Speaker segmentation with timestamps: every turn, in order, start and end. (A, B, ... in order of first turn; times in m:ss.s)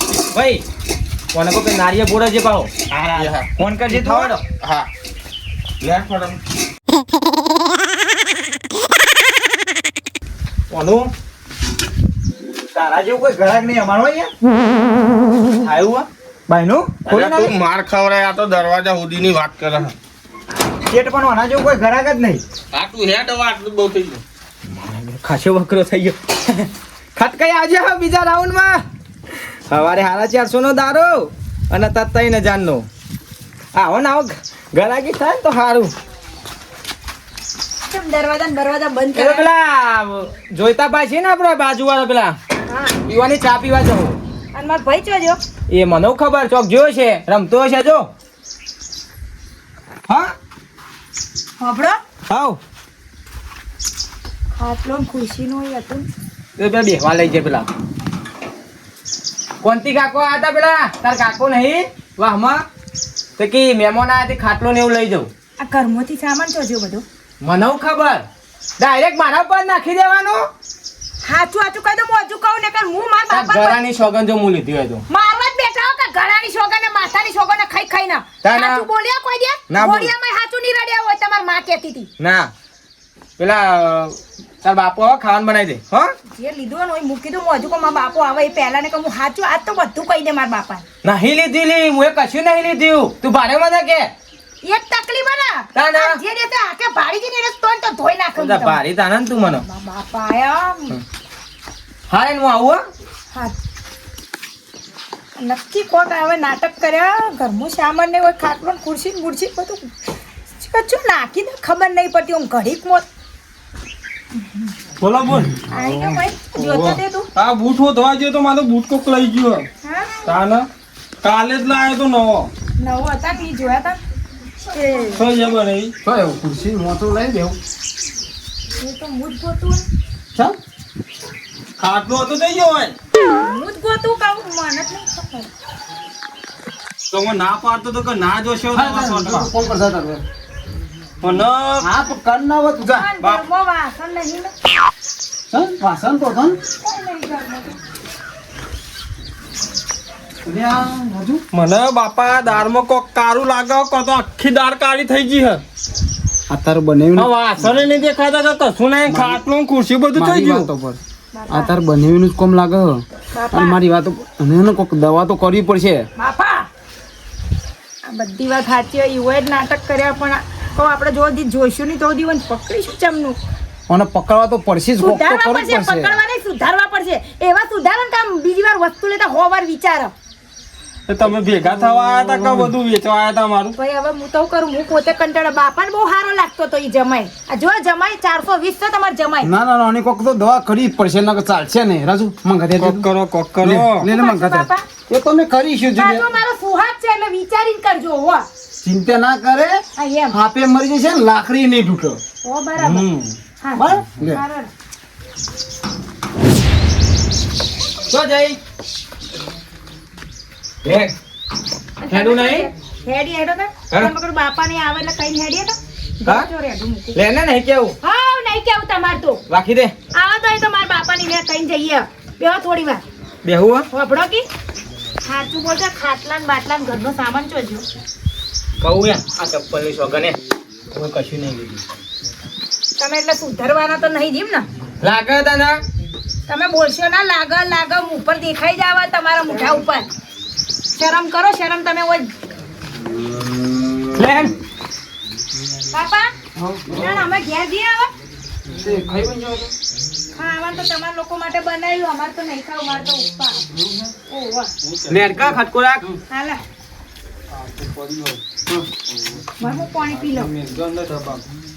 0:00.3-0:00.6 A
0:01.3-0:02.7 A
0:02.9-0:04.4 B
0:03.2-0:03.5 C
0:03.6-0:04.4 A
0:04.6-0:04.9 C
0:05.8-0:06.4 C
0:10.7-0:11.1 A
0:12.7-0:14.3 B
0:15.5-0:16.1 A
0:16.5-0:17.5 B
0:17.1-0:19.9 C
0:20.9-0:22.4 B
0:22.7-0:24.2 C
0:24.7-0:28.8 A
0:29.7-0:32.9 A
0:33.7-0:35.9 A
0:37.9-0:39.5 D
0:39.2-0:42.4 A
0:42.7-0:43.0 D
0:43.1-0:44.2 A
0:44.5-0:45.4 D
0:45.7-0:48.1 A
0:50.1-0:50.4 A
0:51.6-0:52.0 D
0:52.3-0:52.6 A
0:54.6-0:56.1 D
0:56.6-0:57.7 A
0:59.6-1:02.6 A
1:03.4-1:05.3 A
1:05.6-1:07.0 D
1:07.4-1:08.3 A
1:08.8-1:10.5 A
1:11.2-1:13.8 D
1:13.3-1:15.0 A
1:15.1-1:22.1 D
1:18.4-1:18.8 A
1:19.7-1:20.1 A
1:22.2-1:22.5 A
1:23.4-1:26.1 A
1:26.4-1:30.8 D
1:31.0-1:34.1 A
1:34.6-1:38.8 D
1:35.8-1:36.2 A
1:38.4-1:39.6 A
1:39.5-1:41.0 D
1:42.1-1:42.8 A
1:45.4-1:49.9 D
1:50.6-1:53.1 D
1:54.4-1:54.7 D
1:55.0-1:55.6 E
1:55.7-1:57.3 D
1:56.6-1:59.7 E
1:59.8-2:00.2 D
2:00.2-2:00.7 E
2:01.2-2:02.5 E
2:02.8-2:04.0 D
2:04.6-2:05.2 D
2:05.2-2:05.9 E
2:06.0-2:07.6 F
2:08.8-2:09.9 D
2:11.8-2:13.0 E
2:13.4-2:15.5 D
2:17.1-2:19.5 E
2:18.7-2:20.2 F
2:21.2-2:21.9 E
2:21.8-2:23.1 F
2:22.9-2:24.5 D
2:25.5-2:26.6 F
2:26.8-2:27.8 D
2:30.4-2:31.4 F
2:31.5-2:35.6 E
2:36.5-2:37.7 F
2:37.2-2:40.7 E
2:39.1-2:39.4 F
2:40.1-2:41.0 F
2:41.3-2:41.8 D
2:41.5-2:46.1 F
2:43.3-2:43.8 D
2:46.2-2:46.7 D
2:48.1-2:53.4 D
2:53.9-2:56.2 F
2:55.0-3:00.1 D
3:01.1-3:03.8 E
3:01.7-3:02.7 F
3:03.8-3:09.5 D
3:09.4-3:13.1 F
3:12.8-3:14.1 E
3:13.6-3:16.2 F
3:14.0-3:14.8 D
3:15.9-3:18.5 D
3:18.8-3:22.2 F
3:20.0-3:20.4 D
3:22.4-3:23.1 D
3:22.8-3:23.4 E
3:23.6-3:24.7 D
3:23.8-3:24.4 F
3:28.1-3:28.6 A
3:30.8-3:31.1 A
3:32.0-3:37.2 D
3:32.1-3:32.7 A
3:37.1-3:38.0 A
3:38.0-3:39.4 D
3:39.5-3:40.0 A
3:40.1-3:43.0 D
3:43.4-3:43.9 A
3:43.9-3:44.5 D
3:45.2-3:47.9 D
3:48.8-3:50.4 A
3:50.9-3:51.8 A
3:53.0-3:54.7 D
3:55.0-3:55.8 A
3:56.5-4:00.1 D
4:01.0-4:02.3 D
4:04.2-4:04.5 A
4:05.9-4:06.3 D
4:06.6-4:07.2 F
4:06.9-4:08.1 D
4:08.7-4:09.7 F
4:10.4-4:13.6 D
4:13.7-4:14.1 F
4:14.3-4:14.7 D
4:14.8-4:16.2 E
4:15.1-4:16.1 A
4:16.3-4:16.6 D
4:17.5-4:18.4 E
4:19.6-4:20.5 D
4:20.1-4:21.4 E